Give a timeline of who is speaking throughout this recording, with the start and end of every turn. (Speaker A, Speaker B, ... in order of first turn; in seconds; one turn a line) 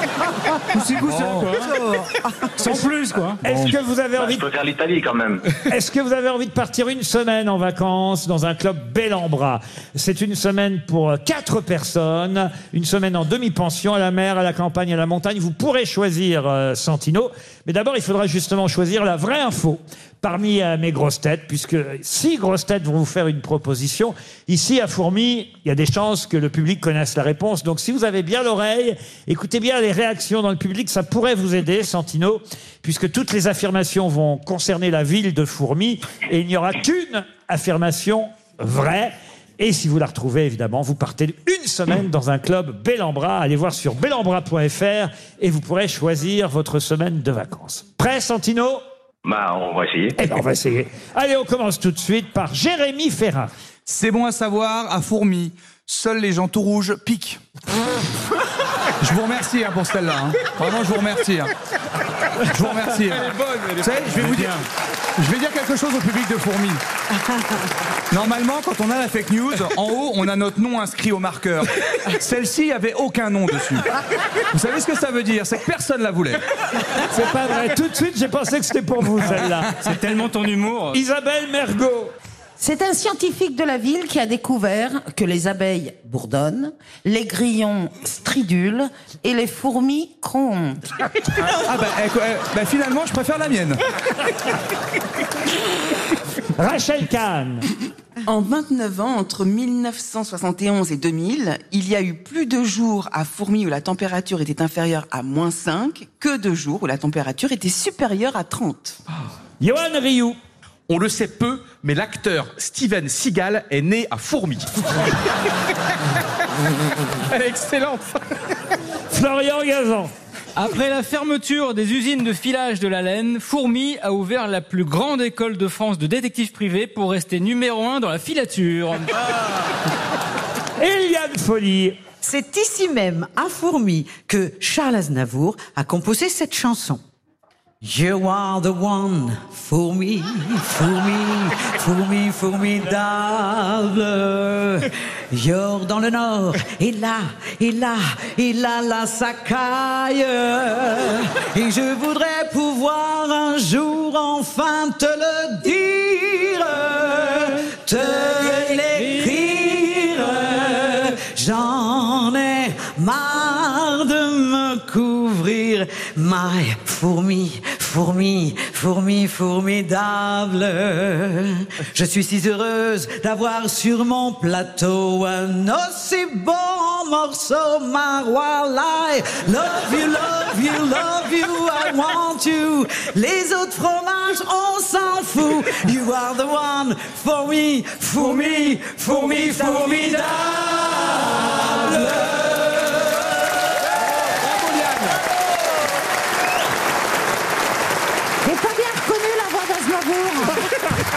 Speaker A: 0.7-1.8
Speaker B: 1.0-1.6
Speaker C: 1.5-2.8
Speaker A: 2.6-3.4
Speaker D: 3.4-4.5
Speaker B: 3.5-3.7
Speaker E: 4.2-5.4
Speaker D: 5.7-48.8
Speaker E: 49.2-50.2
Speaker D: 50.2-53.5
Speaker B: 53.9-57.4
Speaker B: 59.0-61.5
Speaker B: 62.5-64.6
Speaker F: 63.1-64.0
Speaker A: 64.0-64.7
Speaker B: 65.2-66.8
Speaker B: 68.1-73.9
Speaker B: 74.5-76.4
Speaker D: 77.0-79.7
Speaker A: 79.8-81.0
Speaker D: 80.9-82.1
Speaker G: 82.6-90.8
Speaker B: 91.5-93.8
Speaker D: 96.5-97.7
Speaker H: 98.2-109.0
Speaker D: 109.6-110.4
Speaker F: 110.9-114.7
Speaker F: 117.2-118.1
Speaker D: 119.1-120.1
Speaker A: 120.5-129.1
Speaker D: 130.8-132.0
Speaker C: 132.2-137.0
Speaker C: 137.8-192.6
Speaker D: 191.7-192.2
Speaker F: 194.4-195.0
Speaker B: 194.6-194.9
Speaker G: 198.4-200.6